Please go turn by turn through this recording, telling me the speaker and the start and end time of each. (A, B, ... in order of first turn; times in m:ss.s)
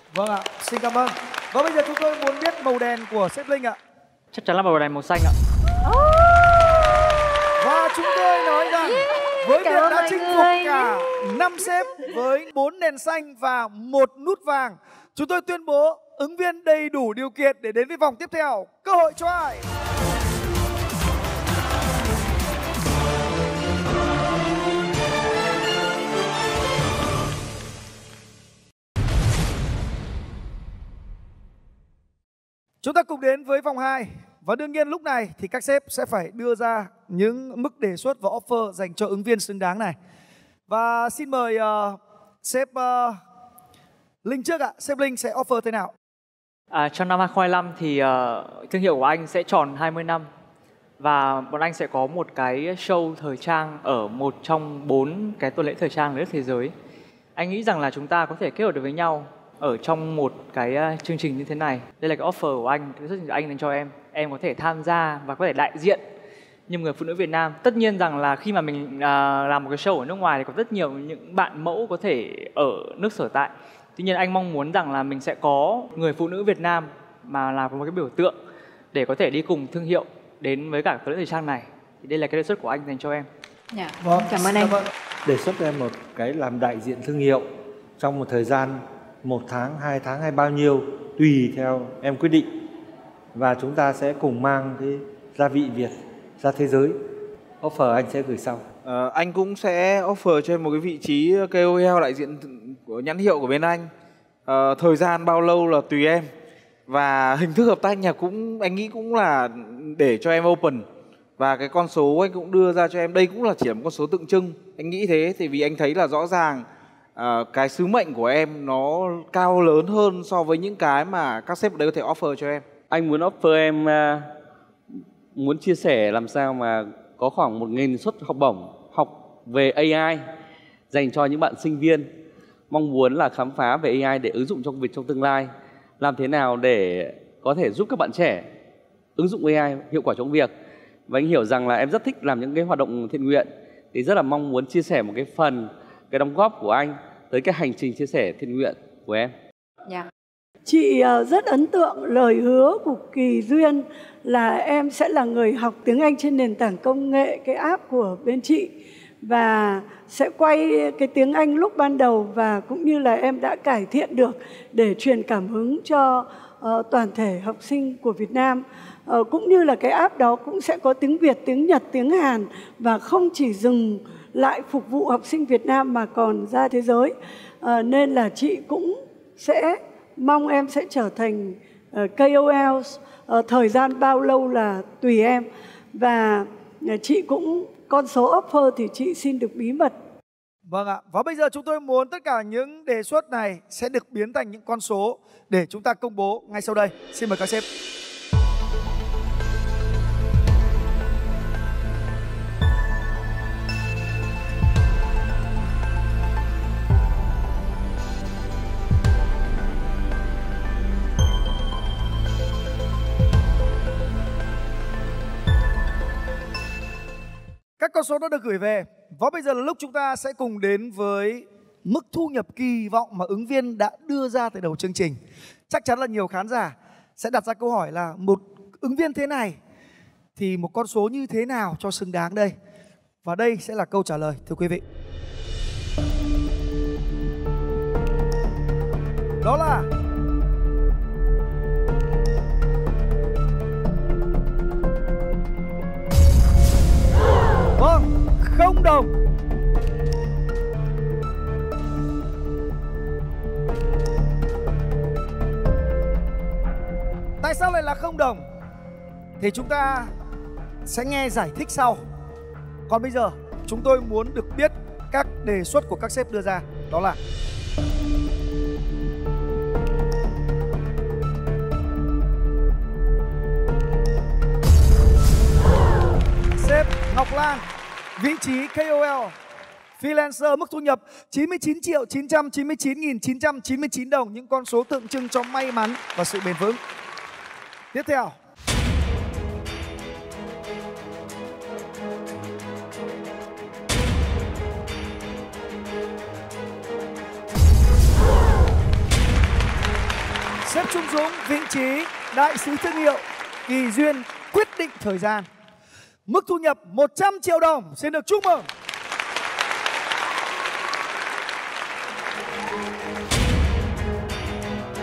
0:00.1-0:03.8 A
0:04.3-0:05.3 B
0:05.8-0:06.8 C
0:07.6-0:19.7 A
0:08.6-0:11.0 C
0:32.8-0:40.0 A
0:40.7-0:43.2 A
0:44.2-0:45.9 A
0:46.7-0:50.3 B
0:51.0-0:56.7 B
0:57.4-1:06.0 B
1:06.7-1:18.3 B
1:18.9-1:23.3 B
1:23.7-1:24.7 C
1:24.0-1:24.8 A
1:25.2-1:27.4 D
1:28.0-1:32.5 D
1:33.3-1:37.0 D
1:37.6-1:38.6 D
1:38.8-1:43.9 E
1:44.4-1:46.3 E
1:46.9-1:50.8 E
1:51.4-2:02.6 E
2:02.9-2:04.3 F
2:05.3-2:10.2 F
2:10.9-2:12.1 F
2:12.7-2:18.5 F
2:19.2-2:20.5 F
2:21.1-2:29.3 F
2:30.6-2:38.7 G
2:39.2-3:10.0 G
3:10.7-3:17.6 A
3:37.8-3:49.6 A
3:50.4-3:52.5 A
3:53.2-3:54.8 A
3:59.4-3:59.9 A
4:07.8-4:09.1 A
4:17.4-4:18.4 A
4:19.4-4:20.1 A
4:20.8-4:22.0 A
4:22.9-4:27.2 A
4:36.5-4:37.6 A
4:38.2-4:39.4 A
4:40.0-4:46.8 A
4:47.9-4:48.4 A
5:00.6-5:05.5 A
5:06.3-5:08.7 A